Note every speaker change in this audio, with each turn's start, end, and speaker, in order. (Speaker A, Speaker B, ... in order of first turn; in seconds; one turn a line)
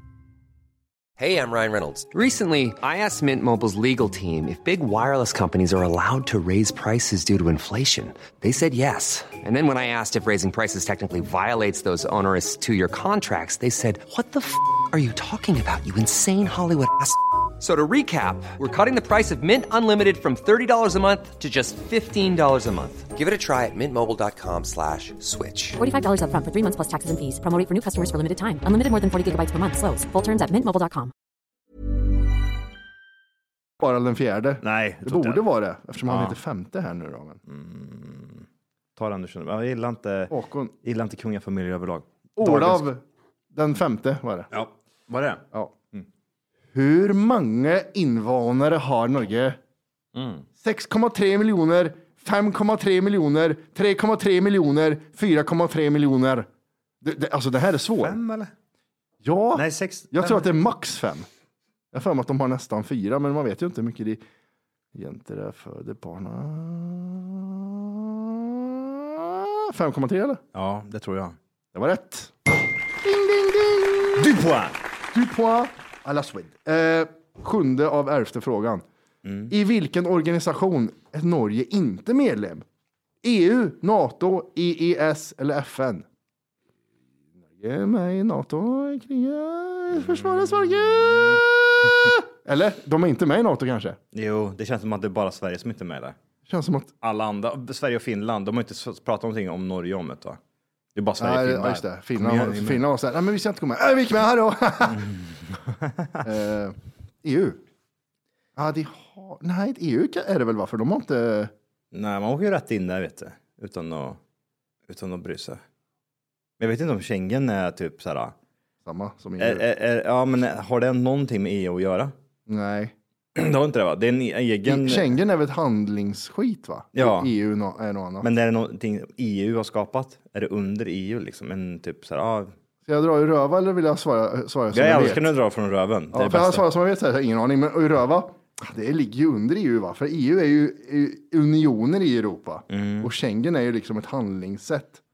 Speaker A: 1.2-25.8
Speaker B: 25.8-31.1
Speaker C: 33.8-37.4
Speaker D: 34.6-35.4
Speaker D: 36.1-36.4
Speaker D: 37.5-40.3
Speaker C: 40.3-40.7
Speaker D: 40.8-42.9
Speaker C: 42.4-43.0
Speaker C: 43.5-44.5
Speaker D: 44.5-45.4
Speaker C: 46.7-49.6
Speaker D: 50.1-50.4
Speaker C: 50.6-56.5
Speaker C: 57.0-58.2
Speaker D: 58.0-58.5
Speaker C: 59.2-61.3
Speaker D: 59.5-60.5
Speaker C: 61.9-64.2
Speaker C: 64.9-70.4
Speaker D: 70.5-71.4
Speaker C: 71.7-72.3
Speaker C: 73.0-74.3
Speaker D: 74.2-74.8
Speaker C: 75.1-78.8
Speaker D: 79.2-79.5
Speaker C: 79.5-82.6
Speaker C: 83.2-86.0
Speaker C: 87.6-91.4
Speaker D: 89.9-91.4
Speaker C: 92.4-94.0
Speaker D: 94.1-96.2
Speaker C: 96.4-96.9
Speaker D: 97.0-100.4
Speaker D: 100.9-102.8
Speaker C: 101.2-105.1
Speaker D: 104.9-106.1
Speaker C: 106.2-107.6
Speaker C: 108.5-111.5
Speaker D: 111.9-114.2
Speaker D: 114.9-115.6
Speaker D: 116.6-118.3
Speaker C: 118.8-119.6
Speaker D: 119.4-122.1
Speaker C: 122.5-122.9
Speaker D: 123.3-125.2
Speaker C: 124.7-128.3
Speaker D: 126.9-127.3
Speaker D: 128.2-132.5
Speaker C: 132.8-135.3
Speaker D: 134.7-136.6
Speaker C: 136.1-145.0
Speaker D: 142.7-143.1